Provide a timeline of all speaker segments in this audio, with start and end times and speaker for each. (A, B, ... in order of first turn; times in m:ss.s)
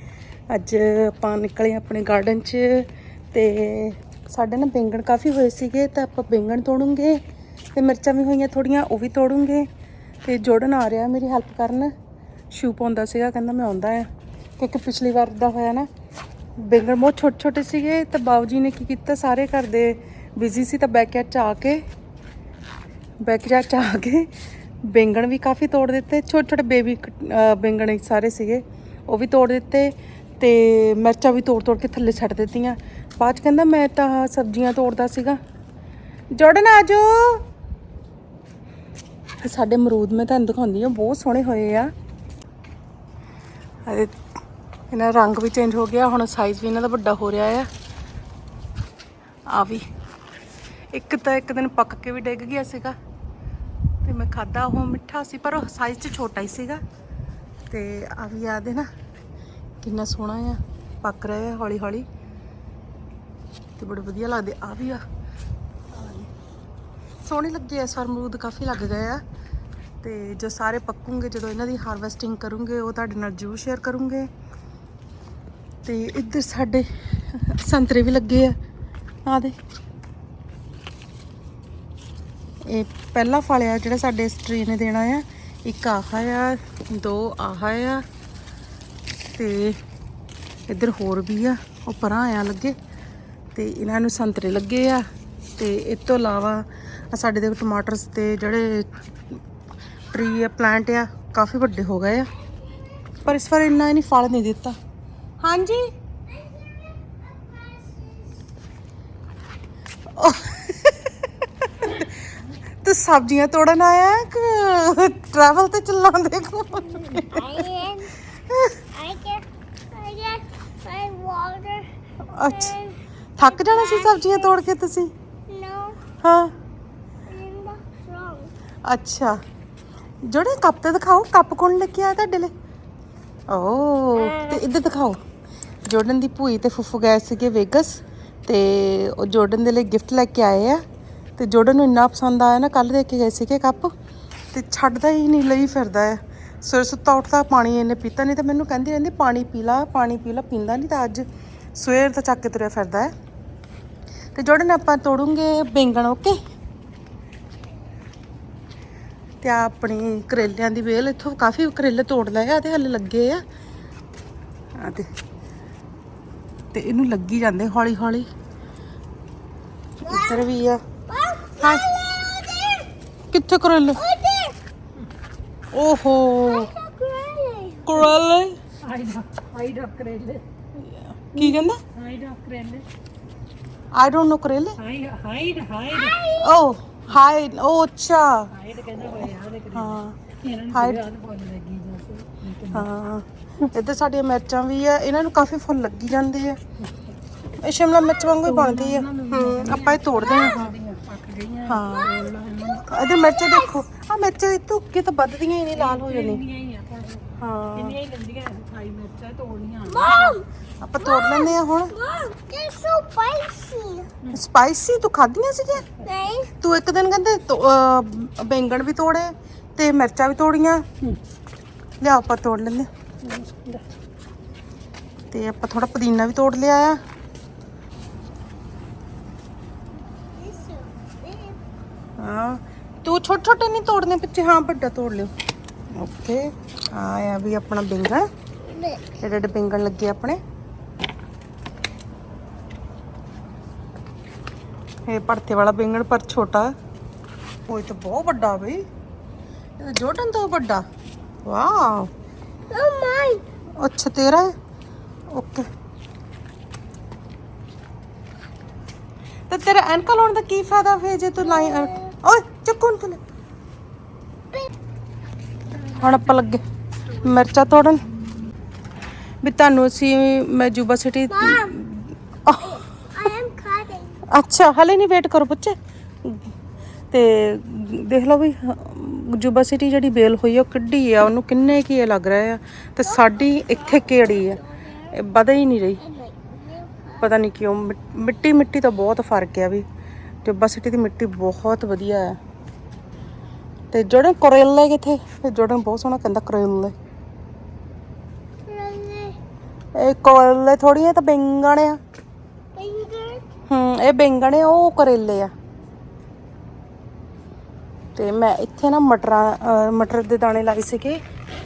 0:00.5-0:07.2 A
0:07.7-0:09.7 A
0:10.2-0:11.9 A
0:12.5-0:15.9 A
0:16.6-0:21.8 A
0:23.2-0:24.3 A
0:24.8-0:35.4 A
0:36.3-0:37.4 A
0:39.4-0:41.9 A
0:43.9-0:44.1 A
0:44.9-0:47.7 A
0:49.5-0:49.9 A
0:50.9-0:53.0 A
0:54.0-0:56.8 A
0:57.7-0:58.9 A
0:59.8-1:02.1 A
1:03.8-1:05.0 A
1:05.9-1:06.3 A
1:07.2-1:09.2 A
1:10.0-1:14.3 A
1:15.8-1:18.6 A
1:19.3-1:19.6 A
1:22.6-1:28.0 A
1:29.3-1:29.8 A
1:30.7-1:32.8 A
1:33.6-1:35.0 A
1:35.6-1:38.9 A
1:40.1-1:42.3 A
1:43.2-1:44.8 A
1:45.4-1:45.9 A
1:47.5-1:48.1 B
1:50.1-1:52.1 A
1:52.8-1:57.7 A
1:57.1-1:58.2 B
1:58.3-1:58.8 A
1:58.9-2:04.5 B
2:02.2-2:02.8 A
2:03.4-2:05.1 A
2:05.5-2:06.0 B
2:06.2-2:06.5 A
2:07.3-2:08.5 B
2:08.8-2:09.4 A
2:10.2-2:12.5 A
2:13.5-2:15.2 A
2:14.2-2:14.6 B
2:15.9-2:20.8 A
2:21.4-2:23.9 A
2:24.5-2:33.1 A
2:34.4-2:36.4 A
2:39.4-2:43.4 A
2:44.8-2:45.1 A
2:46.7-2:48.3 A
2:50.1-2:50.5 B
2:50.1-2:50.8 A
2:51.1-2:52.9 B
2:51.6-2:51.9 A
2:53.3-2:54.0 A
2:54.0-2:54.6 B
2:55.7-2:56.7 A
2:56.4-2:58.0 B
2:57.9-2:58.6 A
2:58.8-3:00.4 C
3:00.8-3:01.8 A
3:01.9-3:02.9 C
3:03.9-3:04.8 A
3:04.8-3:06.2 C
3:05.9-3:06.6 B
3:06.4-3:10.2 A
3:08.5-3:12.9 C
3:10.7-3:11.1 A
3:12.7-3:16.6 A
3:17.6-3:20.8 A
3:18.4-3:23.0 C
3:21.6-3:22.2 A
3:22.8-3:26.4 A
3:23.0-3:23.8 B
3:25.8-3:30.4 C
3:27.4-3:28.0 A
3:29.9-3:30.5 B
3:30.8-3:32.0 A
3:31.0-3:34.1 B
3:34.3-3:35.9 A
3:36.0-3:36.5 B
3:36.5-3:40.8 A
3:42.0-3:42.9 A
3:43.2-3:43.9 C
3:45.3-3:47.0 A
3:50.3-3:51.6 B
3:52.2-3:55.3 A
3:55.9-3:58.3 A
3:58.7-3:59.0 B
3:59.2-4:00.4 A
4:05.1-4:06.7 A
4:07.7-4:08.8 A
4:09.8-4:10.8 A
4:11.4-4:12.1 A
4:12.7-4:13.5 B
4:13.8-4:14.5 A
4:15.3-4:15.7 A
4:19.5-4:23.2 A
4:21.5-4:22.1 B
4:25.7-4:26.5 C
4:25.9-4:26.6 A
4:27.2-4:28.0 A
4:29.4-4:32.8 A
4:31.3-4:31.8 B
4:32.6-4:34.2 B
4:34.3-4:36.4 A
4:37.1-4:46.0 A
4:43.2-4:45.1 B
4:46.0-4:47.2 B
4:47.2-4:49.8 A
4:50.4-4:52.4 A
4:53.9-4:56.9 A
4:58.7-4:59.4 B
5:00.0-5:02.0 A
5:02.8-5:03.5 B
5:03.7-5:05.5 A
5:08.2-5:11.2 A